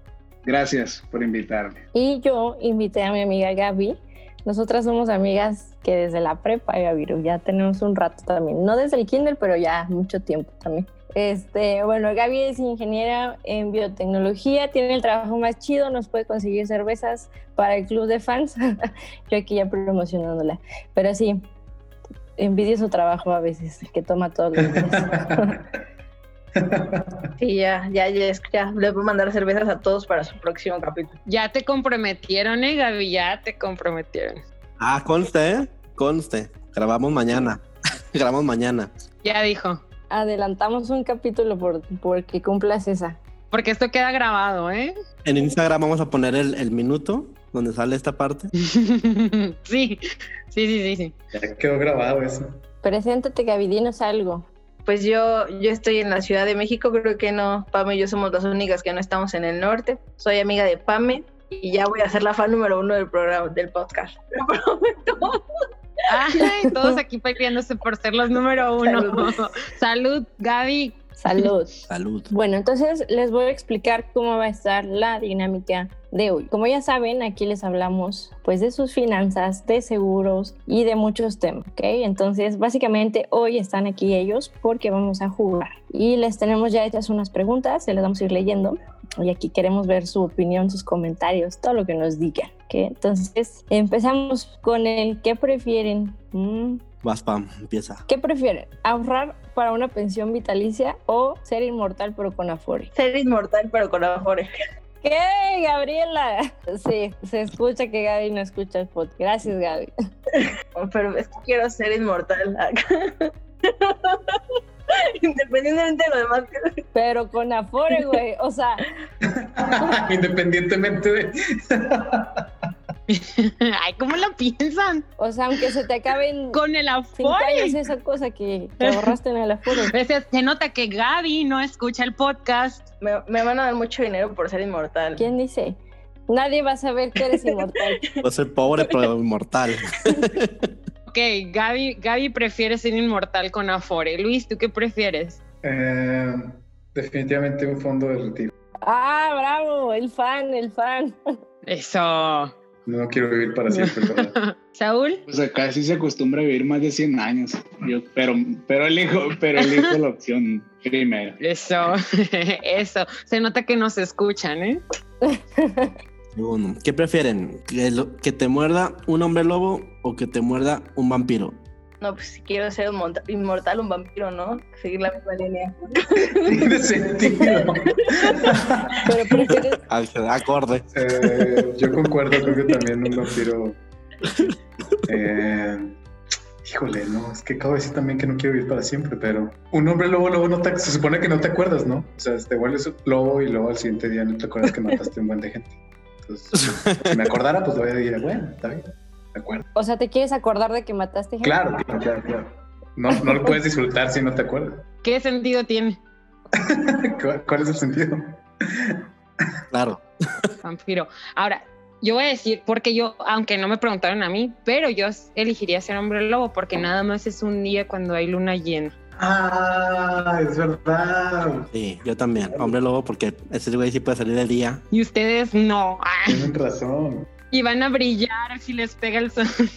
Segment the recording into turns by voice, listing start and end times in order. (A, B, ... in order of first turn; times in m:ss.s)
0:00.4-0:01.8 A
0:01.9-0:18.6 B
0:19.3-0:21.4 B
0:22.4-0:25.6 B
0:26.6-0:27.2 C
0:27.4-0:31.2 D
0:31.2-0:34.4 E
0:34.8-0:37.6 F
0:38.1-0:38.9 F
0:39.2-0:39.8 E
0:40.1-0:43.2 B
0:43.5-0:44.9 E
0:45.2-0:48.5 F
0:48.7-0:50.0 E
0:50.5-0:51.1 E
0:51.3-0:52.6 C
0:52.8-0:54.4 B
0:54.8-1:05.4 D
1:06.1-1:11.5 E
1:08.8-1:09.2 D
1:11.2-1:36.8 B
1:11.9-1:12.3 F
1:37.0-1:38.0 F
1:38.1-1:42.9 B
1:42.9-1:44.5 D
1:45.0-1:49.9 B
1:50.8-1:54.6 D
1:55.2-1:56.7 D
1:56.9-1:58.8 B
1:59.4-2:02.4 C
2:03.1-2:05.0 E
2:05.2-2:06.6 B
2:06.5-2:07.8 E
2:07.1-2:09.9 B
2:09.9-2:12.9 E
2:13.0-2:15.3 D
2:15.2-2:18.0 B
2:18.2-2:20.7 F
2:21.1-2:25.4 E
2:25.6-2:28.5 C
2:28.8-2:31.2 B
2:31.6-2:32.5 E
2:32.8-2:34.3 C
2:33.7-2:35.2 E
2:35.3-2:41.4 A
2:41.4-2:44.8 E
2:45.3-2:45.9 B
2:46.3-2:51.6 F
2:52.0-2:56.6 D
2:56.4-2:58.8 C
2:57.2-2:57.6 D
2:58.1-2:58.4 D
2:59.0-2:59.8 B
2:59.9-3:00.9 F
3:00.9-3:03.8 C
3:04.2-3:05.2 F
3:05.1-3:06.0 C
3:06.6-3:19.6 C
3:16.6-3:17.2 F
3:19.7-3:21.7 B
3:21.4-3:24.8 C
3:25.0-3:26.0 E
3:26.6-3:28.2 C
3:29.7-3:30.5 F
3:30.6-3:38.9 E
3:39.2-3:41.7 C
3:41.7-3:44.8 F
3:42.4-3:42.7 C
3:44.9-3:46.5 E
3:46.3-3:47.3 C
3:47.5-3:49.4 E